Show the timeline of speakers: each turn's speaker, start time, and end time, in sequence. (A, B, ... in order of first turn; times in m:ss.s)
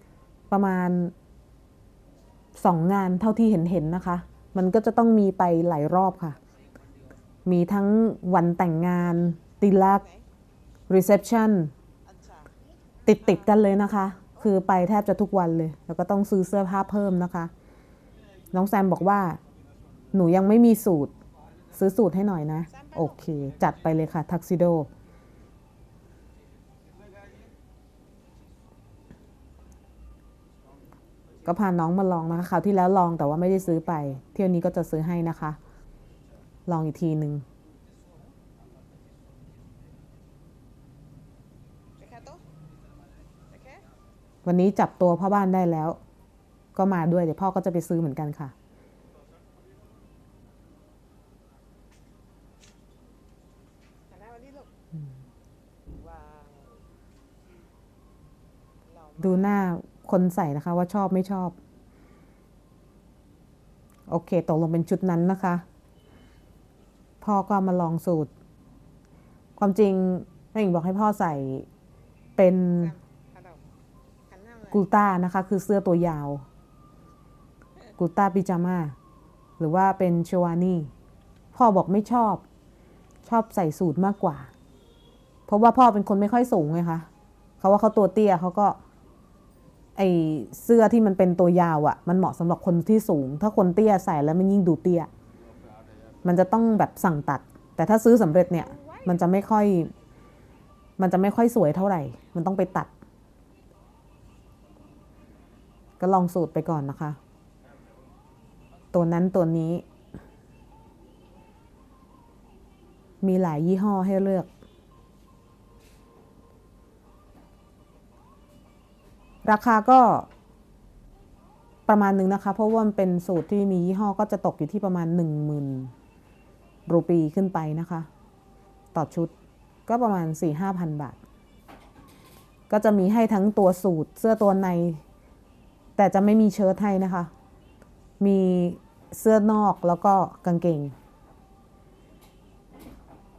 0:00.5-0:01.1 A
0:02.6-0:06.4 A
0:07.4-0:10.0 A
0:09.9-0:10.3 B
0:10.9-0:11.7 A
0:12.0-0:13.5 B
0:13.0-0:17.5 A
0:18.5-0:19.4 A
0:20.1-0:21.1 A
0:21.7-0:24.9 A
0:22.7-0:23.2 B
0:31.4-0:35.6 A
0:36.7-0:37.4 A
0:42.0-0:42.4 B
0:43.5-0:43.9 B
0:44.4-0:46.0 A
0:46.7-0:48.5 A
0:54.1-0:54.7 B
0:55.9-0:56.8 B
0:58.8-0:59.6 B
0:59.2-1:01.5 A
1:04.1-1:05.6 A
1:07.2-1:08.3 A
1:09.6-1:11.7 A
1:12.4-1:12.9 A
1:12.7-1:13.6 B
1:14.3-1:14.8 B
1:14.7-1:16.4 A
1:18.0-1:19.0 A
1:19.6-1:20.9 A
1:21.5-1:22.4 A
1:23.2-1:24.5 A
1:25.5-1:27.1 A
1:27.6-1:28.8 A
1:30.0-1:35.1 A
1:36.2-1:39.9 A
1:38.3-1:39.3 B
1:41.0-1:42.9 A
1:46.0-1:47.2 A
1:48.9-1:49.8 A
1:53.2-1:54.5 A
1:59.4-2:00.3 A
2:01.9-2:05.9 A
2:06.9-2:08.1 A
2:08.9-2:09.3 A
2:09.9-2:11.2 A
2:12.7-2:15.0 A
2:16.0-2:17.3 A
2:18.2-2:20.9 A